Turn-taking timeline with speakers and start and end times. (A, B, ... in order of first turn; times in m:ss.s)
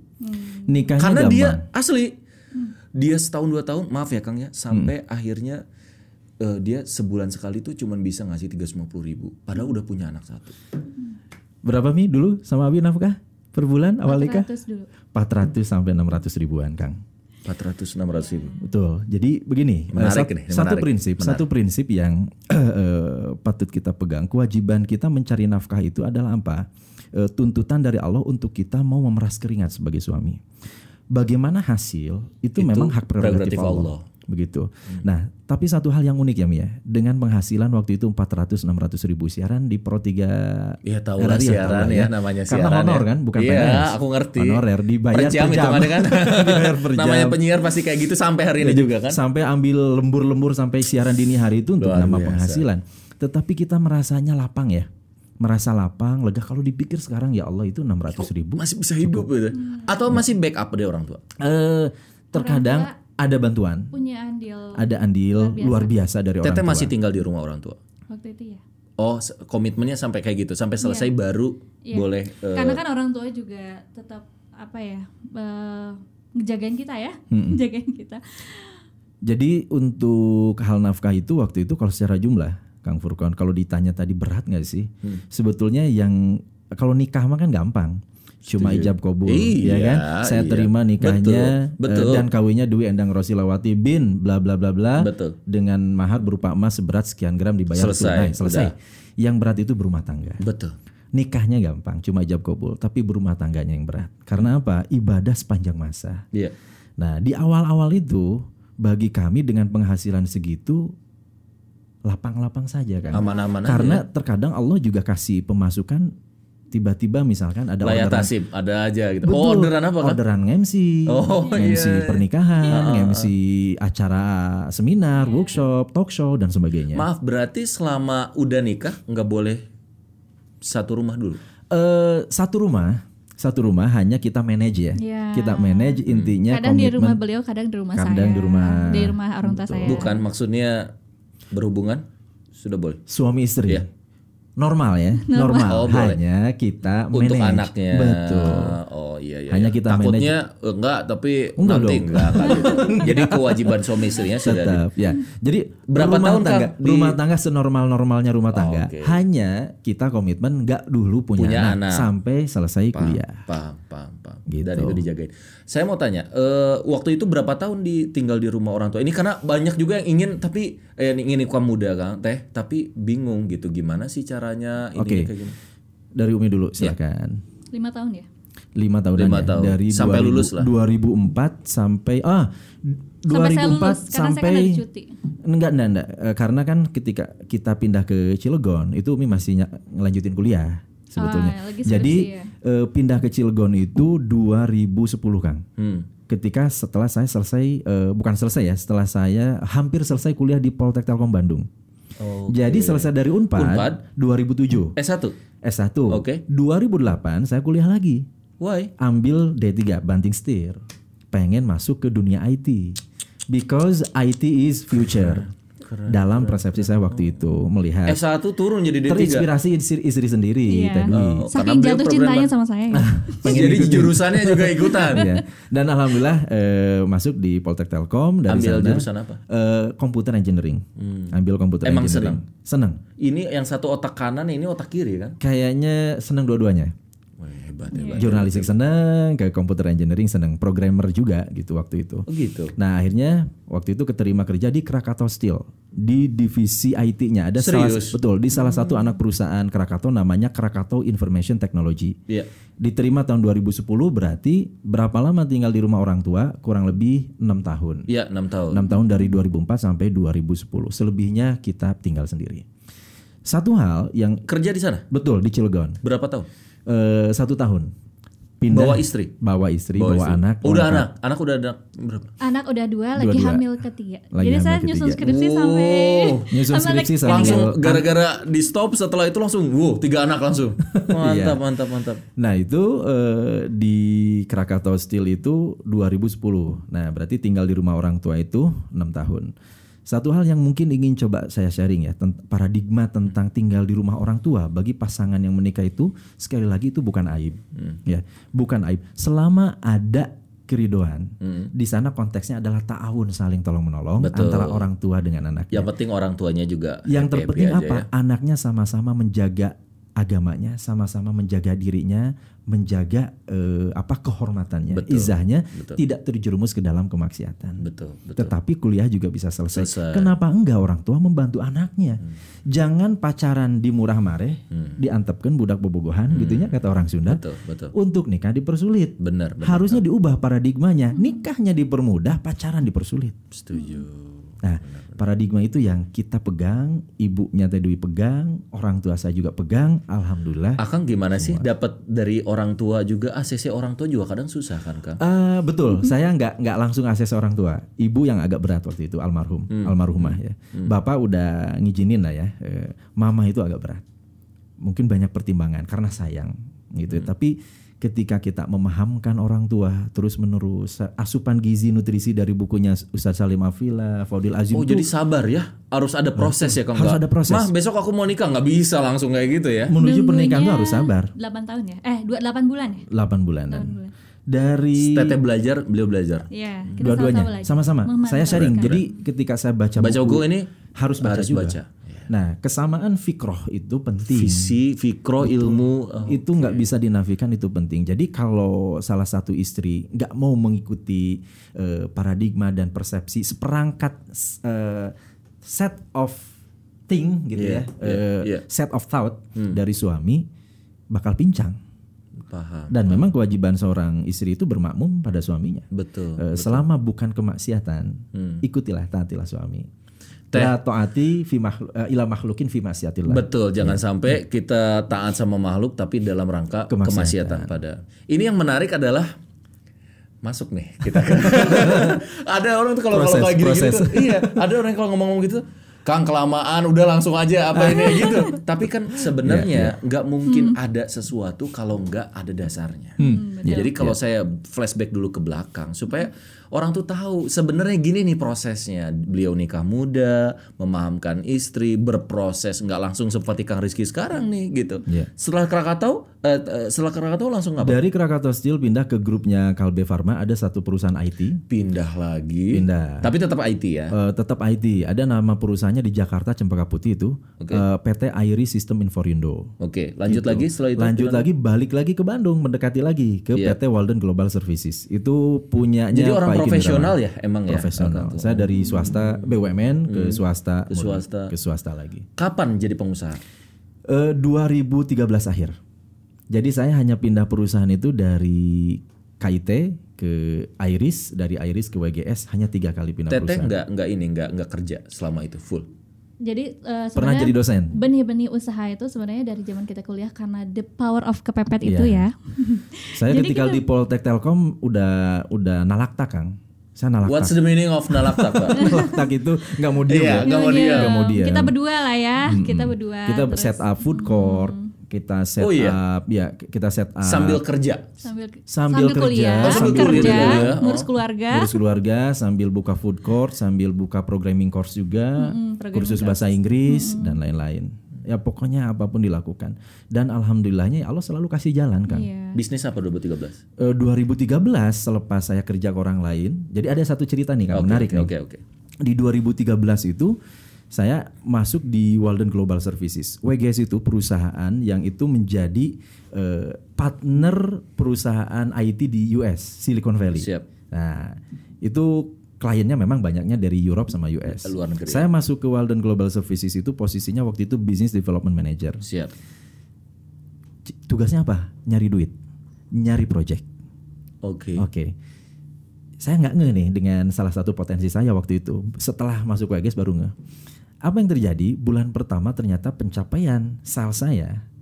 0:00.2-0:00.8 A
0:00.7-0:01.6 B
0:01.0-0:02.2 C
0:02.9-0:05.6 C
0:06.4-0:10.6 C
0:11.6-0:14.5 B
0:14.0-0:14.9 A
0:15.1-0:17.0 B
0:17.4-0:18.6 C
0:18.6-0:30.4 B
0:19.9-0:21.4 C
0:31.1-0:47.4 B
0:32.6-0:34.0 C
0:40.8-0:49.2 C
0:48.6-0:54.9 B
0:51.8-0:52.7 C
0:55.4-0:59.3 B
0:58.2-1:01.2 C
0:59.5-1:00.0 A
1:01.4-1:03.9 B
1:02.3-1:02.9 A
1:03.9-1:05.9 A
1:04.7-1:06.9 B
1:06.4-1:07.8 C
1:08.1-1:08.6 A
1:09.0-1:12.8 C
1:10.8-1:11.1 A
1:11.9-1:18.7 A
1:17.3-1:17.6 B
1:19.2-1:40.4 B
1:28.5-1:32.2 C
1:35.0-1:35.4 C
1:37.7-1:38.7 C
1:40.4-1:40.7 C
1:41.1-1:46.2 B
1:47.0-1:50.9 B
1:52.0-1:56.1 B
1:53.1-1:54.0 C
1:56.7-1:58.3 B
1:57.8-2:00.2 C
1:59.2-2:07.1 B
2:01.1-2:03.3 C
2:05.2-2:05.6 A
2:06.9-2:09.6 C
2:10.6-2:11.4 C
2:11.7-2:17.2 B
2:15.0-2:20.2 A
2:16.1-2:16.4 C
2:18.0-2:20.0 B
2:19.8-2:20.9 C
2:21.5-2:23.0 C
2:23.1-2:23.9 B
2:24.6-2:28.8 B
2:25.2-2:25.8 A
2:25.6-2:26.2 C
2:27.1-2:34.8 C
2:29.5-2:30.4 B
2:31.6-2:33.8 B
2:34.4-2:43.4 B
2:35.9-2:37.2 C
2:38.5-2:39.2 C
2:41.4-2:42.1 C
2:42.9-2:55.6 C
2:44.5-2:45.0 B
2:55.0-2:55.3 B
2:56.1-2:57.4 B
2:57.7-2:58.2 A
2:58.8-3:04.8 B
2:59.2-3:00.7 C
3:03.3-3:05.1 A
3:05.4-3:15.6 B
3:11.2-3:12.5 A
3:15.8-3:16.1 C
3:16.3-3:21.7 B
3:22.2-3:24.0 C
3:22.5-3:25.0 B
3:25.0-3:25.4 C
3:25.6-3:28.2 B
3:26.1-3:26.4 C
3:28.6-3:28.9 C
3:29.0-3:30.8 B
3:31.3-3:33.0 B
3:33.5-3:35.5 B
3:35.0-3:37.3 C
3:36.1-3:38.2 B
3:38.0-3:39.5 C
3:39.0-3:41.4 B
3:40.7-3:43.7 A
3:41.1-3:42.5 C
3:42.9-3:53.0 B
3:43.4-3:45.4 C
3:45.0-3:45.3 A
3:48.5-3:49.4 C
3:51.0-3:52.4 C
3:53.2-3:55.4 C
3:55.4-3:56.9 B
3:57.4-3:58.7 C
3:57.9-3:58.2 A
3:58.2-4:12.2 B
4:02.3-4:02.7 C
4:07.6-4:08.2 C
4:12.8-4:18.1 B
4:18.1-4:18.9 C
4:18.7-4:22.6 B
4:23.4-4:24.5 B
4:24.5-4:25.0 C
4:25.1-4:26.0 B
4:26.0-4:26.5 C
4:26.9-4:27.9 B
4:28.6-4:31.1 B
4:28.7-4:29.3 C
4:29.9-4:32.3 C
4:32.4-4:37.7 A
4:33.2-4:33.6 B
4:34.3-4:35.2 B
4:35.2-4:36.5 C
4:36.5-4:38.0 B
4:37.2-4:42.2 C
4:40.9-4:41.6 B
4:42.4-4:49.5 B
4:50.1-5:05.9 B
5:01.4-5:01.7 C
5:04.2-5:04.9 C
5:05.7-5:08.1 C
5:07.1-5:17.8 B
5:14.9-5:16.0 C
5:17.8-5:18.5 C
5:18.4-5:33.4 B
5:19.7-5:20.4 C
5:24.7-5:25.0 C
5:26.3-5:27.9 C
5:29.2-5:30.0 C
5:33.5-5:35.2 C
5:33.7-5:34.0 A
5:34.6-5:41.7 B
5:40.8-5:45.2 C
5:45.2-5:54.0 B
5:49.7-5:50.9 C
5:54.8-6:05.1 B
6:04.7-6:09.9 C
6:06.4-6:07.7 B
6:09.9-6:11.3 B
6:10.0-6:13.1 A
6:13.1-6:14.0 B
6:13.7-6:14.1 A
6:14.5-6:15.4 B
6:14.9-6:16.5 C
6:16.5-6:19.1 A
6:17.0-6:24.8 B
6:18.4-6:19.0 C
6:20.0-6:20.7 C
6:21.2-6:22.2 C
6:24.2-6:26.9 C
6:25.4-6:36.5 B
6:37.1-6:40.4 B
6:37.5-6:38.6 C
6:41.1-6:41.8 B
6:42.4-6:43.2 C
6:42.9-6:49.9 B
6:45.9-6:46.8 C
6:48.3-6:48.6 C
6:50.5-6:54.0 B
6:53.3-6:59.3 C
6:56.9-6:57.7 B
7:00.4-7:28.0 C
7:01.3-7:02.2 B
7:03.1-7:04.6 B
7:07.7-7:08.6 B
7:09.4-7:10.0 B
7:10.5-7:10.8 A
7:13.2-7:14.2 B
7:13.2-7:13.9 A
7:27.8-7:31.6 B
7:31.7-7:34.1 C
7:32.7-7:33.3 B
7:34.1-7:39.7 B
7:37.6-7:37.8 C
7:39.8-7:41.5 C
7:40.3-7:52.2 B
7:46.1-7:48.8 C
7:50.1-7:51.5 C
7:52.4-7:53.4 C
7:54.1-7:55.8 B
7:56.5-8:03.7 B
8:03.3-8:05.9 C
8:06.4-8:13.8 A
8:07.2-8:08.0 B
8:11.8-8:12.3 B
8:13.1-8:21.7 B
8:17.2-8:19.1 C
8:18.7-8:19.2 A
8:20.1-8:21.2 C
8:20.4-8:24.9 A
8:22.4-8:27.6 B
8:25.6-8:26.0 C
8:27.2-8:28.0 C
8:28.2-8:31.8 A
8:28.7-8:30.7 B
8:29.6-8:31.1 C
8:31.5-8:42.3 B
8:35.4-8:37.4 A
8:42.1-8:42.6 A
8:42.5-8:43.6 C
8:43.8-8:48.3 B
8:47.7-8:48.6 C
8:49.0-8:50.4 B
8:50.9-9:09.0 B
9:00.4-9:00.7 C
9:04.6-9:05.3 C
9:09.0-9:09.3 C
9:10.9-9:12.3 B
9:12.9-9:13.6 B
9:14.4-9:14.8 C
9:14.8-9:15.1 B
9:16.2-9:20.3 B
9:21.0-9:24.6 B